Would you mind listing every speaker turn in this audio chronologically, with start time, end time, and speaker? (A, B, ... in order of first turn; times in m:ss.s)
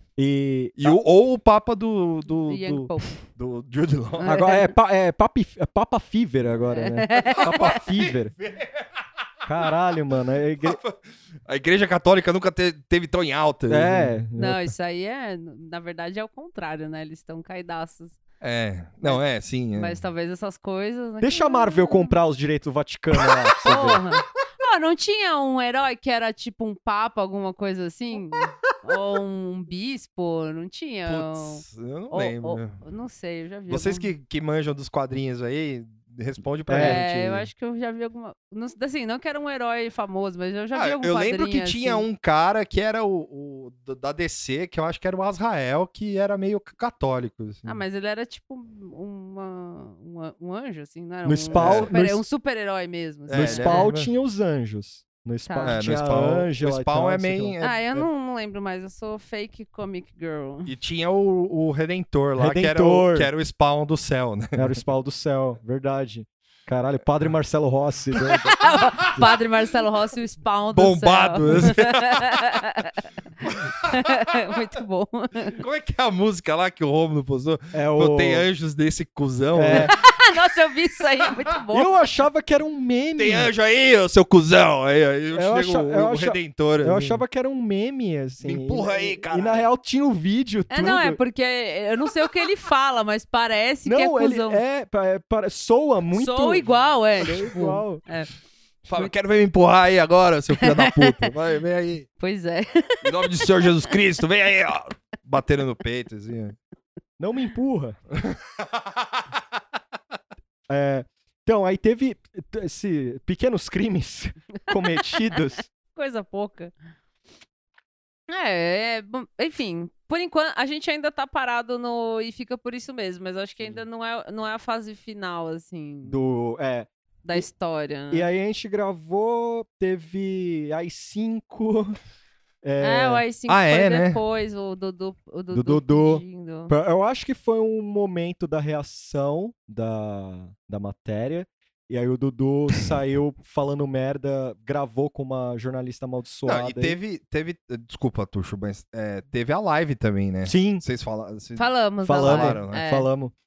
0:00.2-0:01.0 A
0:00.8-0:04.3 B
0:02.4-0:03.2 C
0:04.2-0:04.7 C
0:04.2-0:08.3 A
0:06.7-0:07.8 C
0:07.1-0:09.0 B
0:09.4-0:10.8 A
0:10.6-0:14.1 B
0:13.7-0:14.7 A
0:14.4-0:18.2 C
0:18.4-0:20.0 B
0:19.0-0:22.2 C
0:21.2-0:24.0 A
0:23.1-0:23.6 B
0:23.6-0:34.1 C
0:31.0-0:32.8 B
0:33.7-0:37.5 B
0:36.7-0:37.0 A
0:36.8-0:42.0 C
0:40.7-0:47.8 B
0:47.6-0:53.9 C
0:51.2-0:52.2 A
0:51.5-0:52.0 B
0:53.3-0:54.1 B
0:53.3-0:57.5 A
0:55.4-0:55.8 C
0:55.6-0:58.1 B
0:57.6-1:00.7 C
1:00.6-1:04.8 B
1:02.4-1:03.3 A
1:04.6-1:09.2 A
1:08.3-1:09.3 B
1:08.6-1:13.0 C
1:10.7-1:12.6 B
1:13.4-1:14.2 B
1:13.9-1:15.6 C
1:15.6-1:20.0 B
1:17.7-1:18.4 A
1:19.5-1:20.0 A
1:19.7-1:21.9 C
1:21.7-1:23.5 A
1:23.2-1:27.2 B
1:25.3-1:31.2 A
1:28.4-1:29.7 B
1:30.7-1:34.6 C
1:33.8-1:38.0 A
1:36.1-1:38.3 C
1:38.9-1:42.1 B
1:40.5-1:41.3 C
1:42.2-1:43.8 C
1:43.0-1:46.6 B
1:47.2-1:48.0 A
1:48.1-1:49.4 B
1:50.7-1:55.7 A
1:54.8-1:55.4 C
1:55.9-1:56.7 C
1:58.3-2:06.2 C
2:06.0-2:07.4 A
2:07.2-2:08.3 C
2:08.1-2:12.0 A
2:12.6-2:13.2 A
2:12.8-2:16.7 C
2:13.5-2:14.2 B
2:15.5-2:27.0 A
2:26.4-2:31.6 B
2:30.4-2:30.8 A
2:31.6-2:33.1 C
2:32.0-2:33.3 A
2:32.2-2:32.8 B